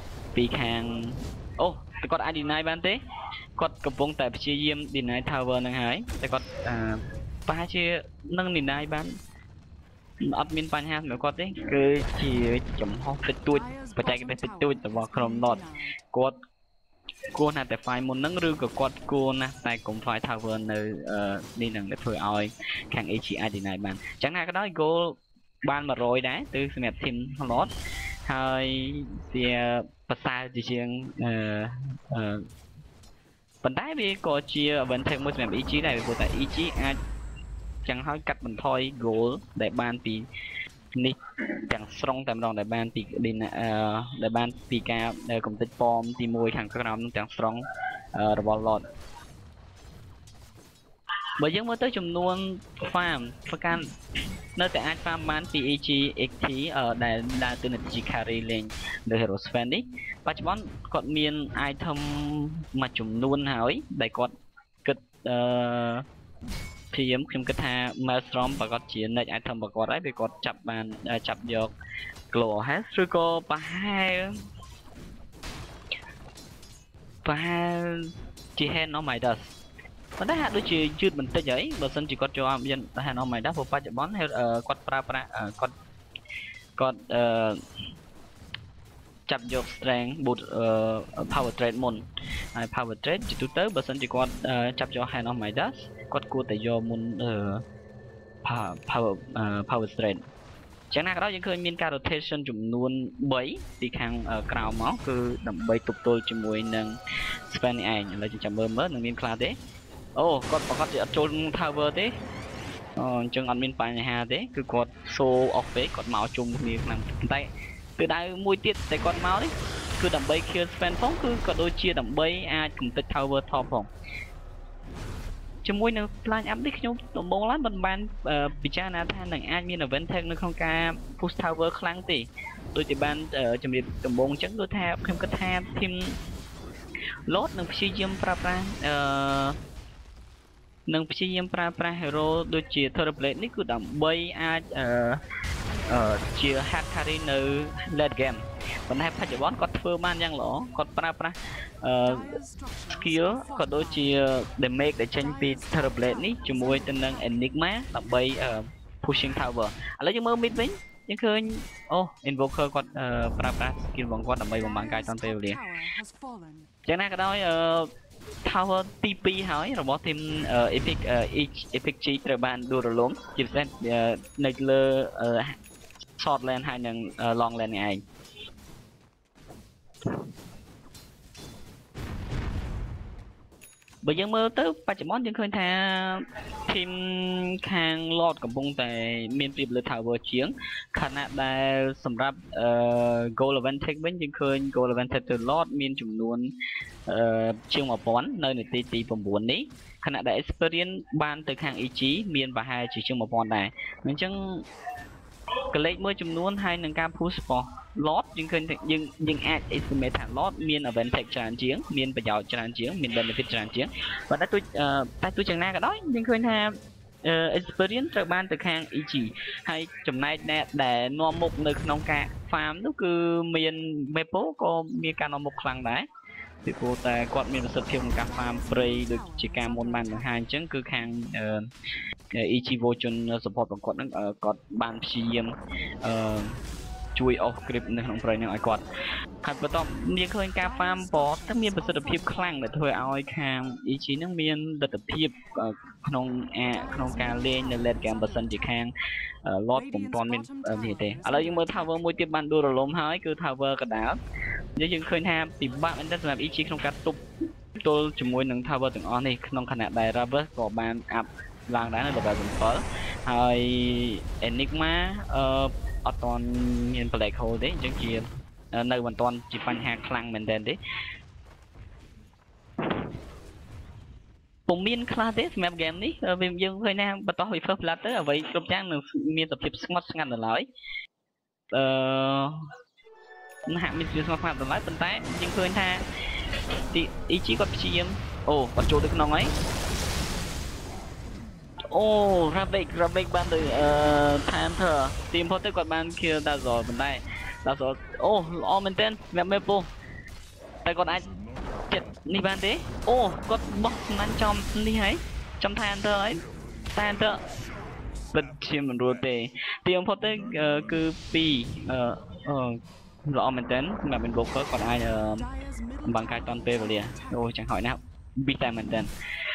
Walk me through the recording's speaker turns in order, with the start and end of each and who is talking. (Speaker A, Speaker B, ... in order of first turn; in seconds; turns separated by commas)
Speaker A: 0.3-3.0, Speaker A: 3.6-9.2, Speaker A: 10.2-16.4, Speaker B: 13.5-15.9, Speaker A: 17.3-27.7, Speaker A: 28.3-32.4, Speaker A: 33.6-37.0, Speaker A: 37.8-40.3, Speaker A: 41.0-48.8, Speaker A: 51.4-53.9, Speaker A: 54.5-64.3, Speaker A: 64.8-66.0, Speaker A: 66.9-71.7, Speaker A: 72.3-74.3, Speaker A: 77.2-79.5, Speaker A: 80.2-85.7, Speaker A: 86.8-87.6, Speaker A: 89.3-97.6, Speaker A: 98.4-100.2, Speaker A: 100.9-109.6, Speaker A: 110.2-112.1, Speaker A: 113.0-123.9, Speaker A: 125.6-136.2, Speaker A: 137.3-139.6, Speaker A: 140.9-145.2, Speaker A: 145.9-152.4, Speaker B: 152.1-154.2, Speaker A: 152.9-165.6, Speaker B: 155.2-157.5, Speaker B: 164.6-166.7, Speaker A: 166.8-167.9, Speaker A: 168.4-175.6, Speaker A: 176.2-178.0, Speaker A: 184.0-196.5, Speaker A: 197.1-204.7, Speaker A: 205.7-226.1, Speaker A: 226.6-231.7, Speaker B: 228.2-230.3, Speaker A: 232.3-236.6, Speaker A: 237.1-238.9, Speaker A: 239.4-248.9, Speaker B: 240.6-242.8, Speaker B: 246.7-248.8, Speaker A: 249.4-254.2, Speaker B: 249.7-251.9, Speaker A: 254.8-257.2, Speaker A: 257.8-270.8, Speaker A: 274.7-280.6, Speaker A: 281.7-282.6, Speaker A: 283.7-286.0, Speaker A: 286.9-289.5, Speaker A: 291.9-299.9, Speaker A: 300.8-301.3, Speaker A: 301.9-307.4, Speaker A: 308.3-315.4, Speaker B: 315.2-317.5, Speaker A: 316.1-319.1